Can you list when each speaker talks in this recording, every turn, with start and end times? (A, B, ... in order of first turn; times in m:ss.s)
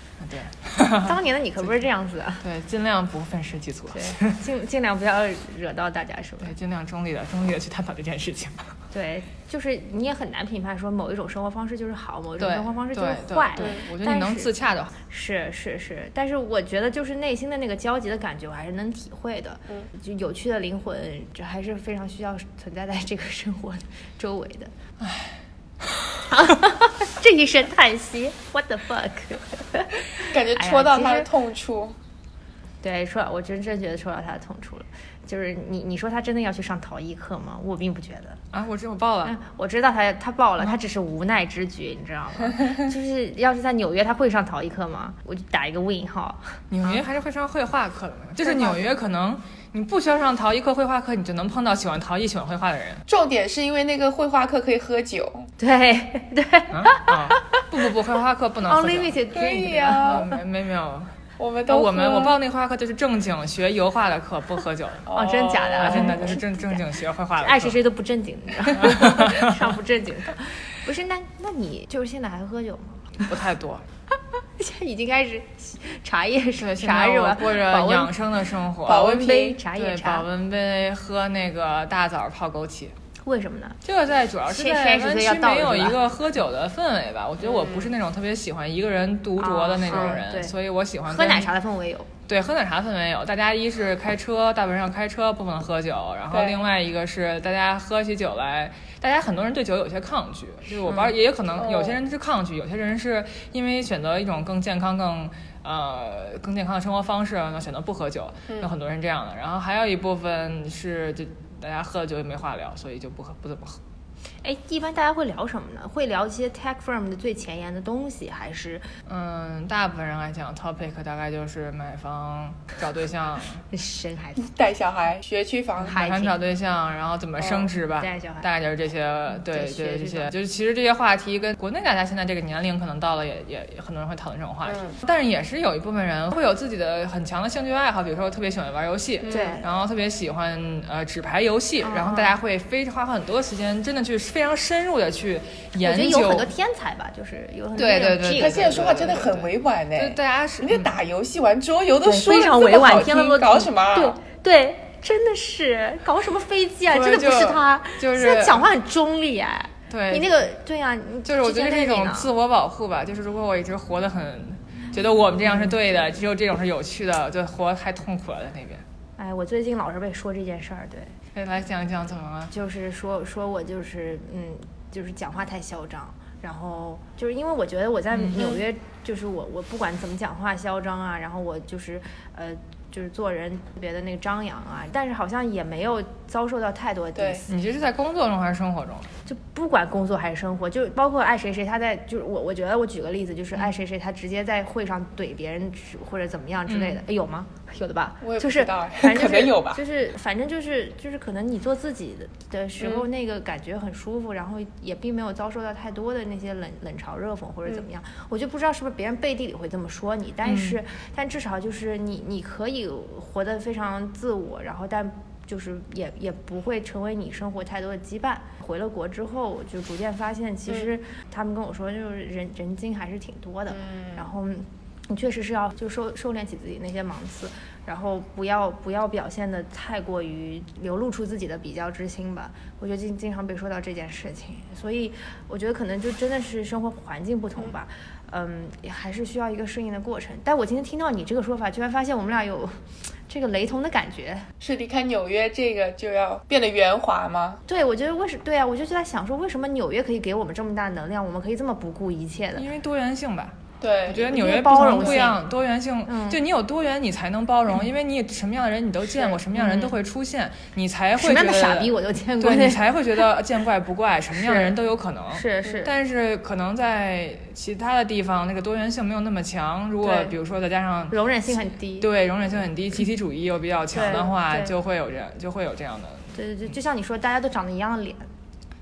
0:00.2-0:01.6 A
0:00.8-0:02.4 B
0:02.4-0:04.4 A
0:03.9-0:06.5 B
0:06.4-0:08.7 A
0:08.9-0:24.7 B
0:12.4-0:14.9 A
0:13.6-0:13.9 C
0:25.0-0:25.3 A
0:26.3-0:31.3 B
0:30.2-0:32.0 C
0:32.8-0:38.4 B
0:38.5-0:39.4 A
0:39.2-0:47.0 B
0:46.7-0:53.0 A
0:48.4-0:48.9 B
0:53.1-0:55.5 C
0:55.6-0:57.6 B
0:56.7-1:01.1 A
0:58.6-1:00.4 B
0:59.3-1:00.2 C
1:01.4-1:02.4 C
1:01.7-1:05.1 A
1:05.0-1:06.4 C
1:05.1-1:06.8 B
1:05.7-1:07.8 A
1:07.4-1:13.2 B
1:08.7-1:09.5 A
1:13.2-1:13.8 A
1:14.6-1:18.1 B
1:16.6-1:22.9 A
1:18.8-1:19.6 C
1:18.9-1:20.2 B
1:23.2-1:23.8 B
1:23.8-1:31.5 A
1:24.5-1:26.0 B
1:27.4-1:27.9 C
1:29.4-1:30.5 B
1:29.9-1:30.2 C
1:31.1-1:32.1 B
1:32.3-1:53.8 A
1:36.3-1:36.6 C
1:40.8-1:41.1 B
1:41.6-1:42.0 C
1:54.4-1:58.9 B
1:59.0-2:03.6 A
2:03.7-2:04.5 B
2:04.4-2:06.0 C
2:05.8-2:06.3 B
2:05.8-2:26.5 A
2:07.4-2:07.7 C
2:08.0-2:08.5 B
2:09.3-2:10.3 B
2:14.6-2:15.0 C
2:19.2-2:19.6 C
2:19.3-2:19.6 B
2:21.8-2:22.4 B
2:25.7-2:29.4 B
2:27.8-2:30.9 A
2:28.3-2:34.2 C
2:32.0-2:42.3 B
2:36.9-2:38.7 A
2:39.9-2:40.3 A
2:41.2-2:48.8 A
2:45.5-2:45.7 B
2:49.2-2:51.1 B
2:51.3-2:52.5 A
2:52.5-3:07.5 B
2:58.1-2:58.6 A
3:07.2-3:07.4 C
3:07.5-3:09.1 A
3:09.2-4:02.7 B
3:16.7-3:17.0 A
3:18.2-3:19.8 C
3:22.8-3:23.0 C
3:30.4-3:30.8 A
3:43.7-3:44.3 C
4:03.3-4:04.5 B
4:04.6-4:07.6 C
4:07.7-4:12.6 B
4:12.6-4:36.3 A
4:13.8-4:14.4 C
4:14.3-4:15.4 B
4:14.9-4:15.2 C
4:16.1-4:16.4 B
4:19.5-4:19.9 B
4:21.2-4:22.9 B
4:24.4-4:24.7 B
4:25.3-4:25.9 B
4:30.0-4:30.3 B
4:31.1-4:32.1 B
4:33.9-4:34.7 B
4:36.3-4:38.2 B